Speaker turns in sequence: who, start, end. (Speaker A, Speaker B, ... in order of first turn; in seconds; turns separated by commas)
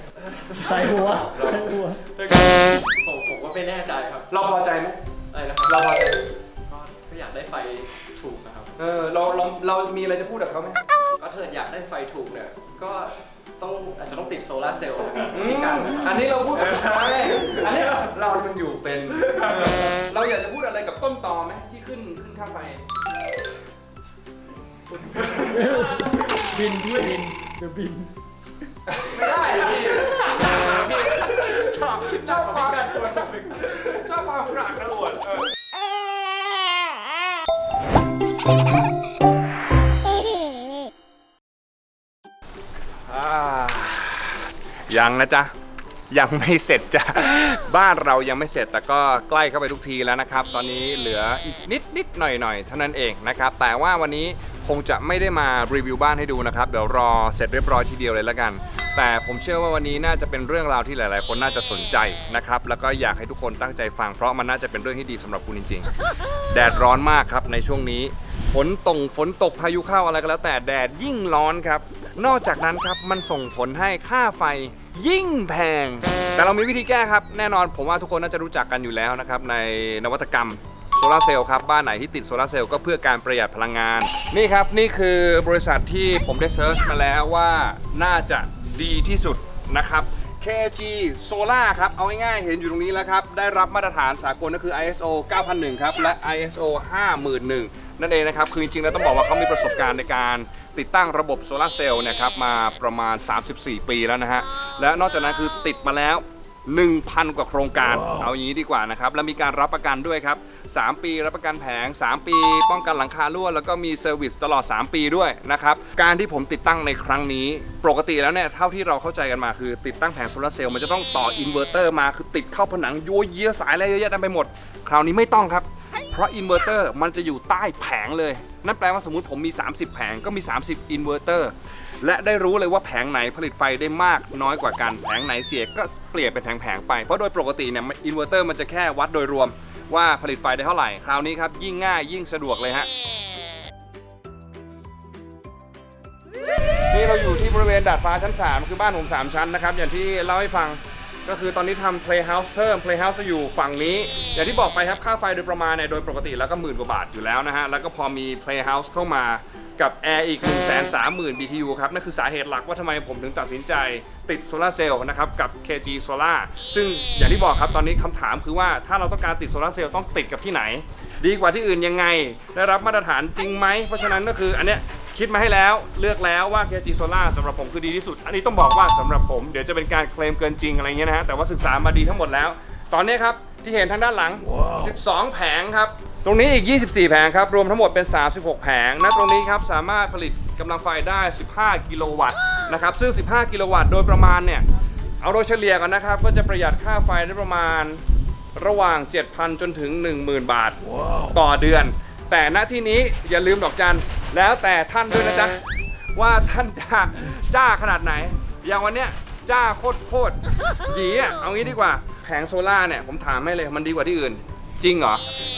Speaker A: 0.2-4.3, Speaker B: 0.6-2.0, Speaker C: 4.3-5.0, Speaker A: 5.3-8.8, Speaker C: 5.7-6.2, Speaker C: 8.8-10.8, Speaker A: 11.2-18.1, Speaker C: 15.2-22.8, Speaker A: 19.2-19.9, Speaker A: 24.9-26.4, Speaker B: 25.3-28.1, Speaker C: 28.9-35.5, Speaker A: 29.0-34.0, Speaker C: 43.1-45.5, Speaker C: 46.1-65.9, Speaker C: 66.5-142.9, Speaker C: 146.9-194.7, Speaker C: 195.2-198.0, Speaker C: 198.5-205.6, Speaker C: 206.1-215.2